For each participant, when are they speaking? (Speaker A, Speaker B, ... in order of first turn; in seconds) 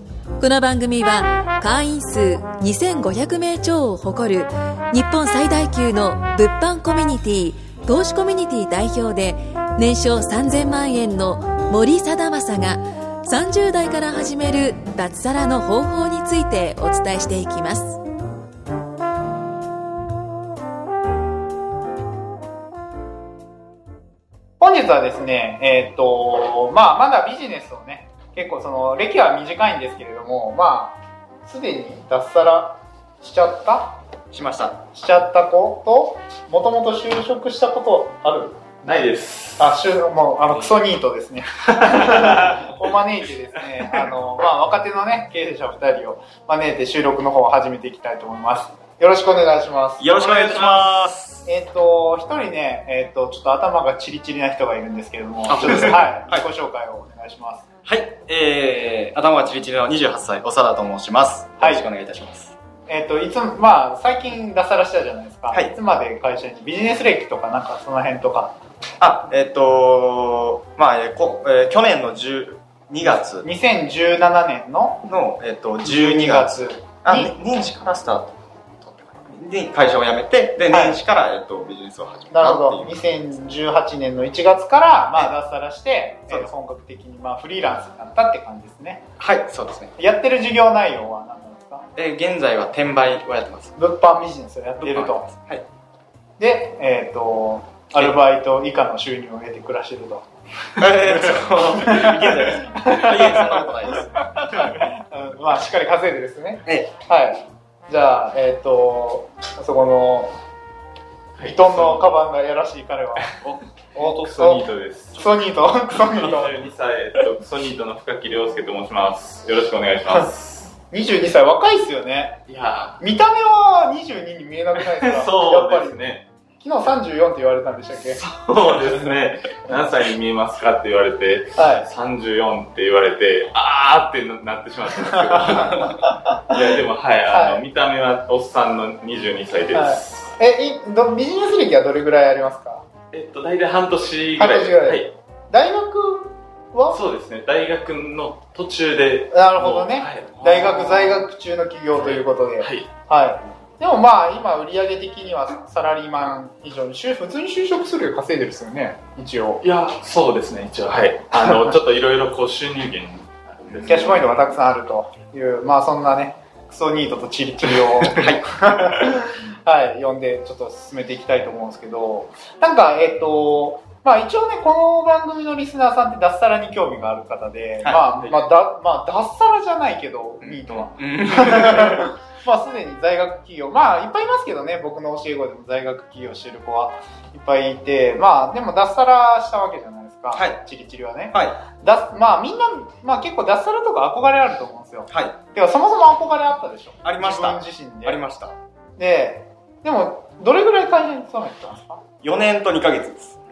Speaker A: 0.4-18.0
Speaker B: 24.6-34.0, 34.9-57.6, 61.6-61.9, 62.9-68.6, 73.0-75.1, 75.8-77.3, 80.7-81.0, 82.3-89.1, 90.0-91.9, 93.8-95.3, 96.4-100.2, 101.5-103.7, 104.4-110.3, 111.4-113.3, 114.0-116.6, 120.9-122.4, 123.0-128.2, 131.6-131.9, 135.2-136.4, 137.3-137.6, 139.7-142.8, 144.4-147.0, 149.3-159.6, 163.9-198.2, 199.0-202.0
Speaker C: 34.3-34.8, 50.0-51.5, 55.5-56.5, 57.9-62.5, 65.5-65.8, 69.0-73.5, 75.0-83.0, 89.2-90.0, 92.0-93.8, 94.8-95.7, 100.8-104.1, 106.7-106.9, 167.9-169.0, 180.4-182.1, 190.3-190.7, 191.3-191.6, 195.1-195.4, 197.0-198.6, 202.2-203.4
Speaker D: 38.9-39.8, 41.7-42.7, 111.4-112.1, 114.0-115.4, 116.2-120.8, 122.5-123.0, 124.8-126.3, 127.9-140.4, 143.1-145.1, 146.9-151.3, 151.9-152.9, 159.6-164.4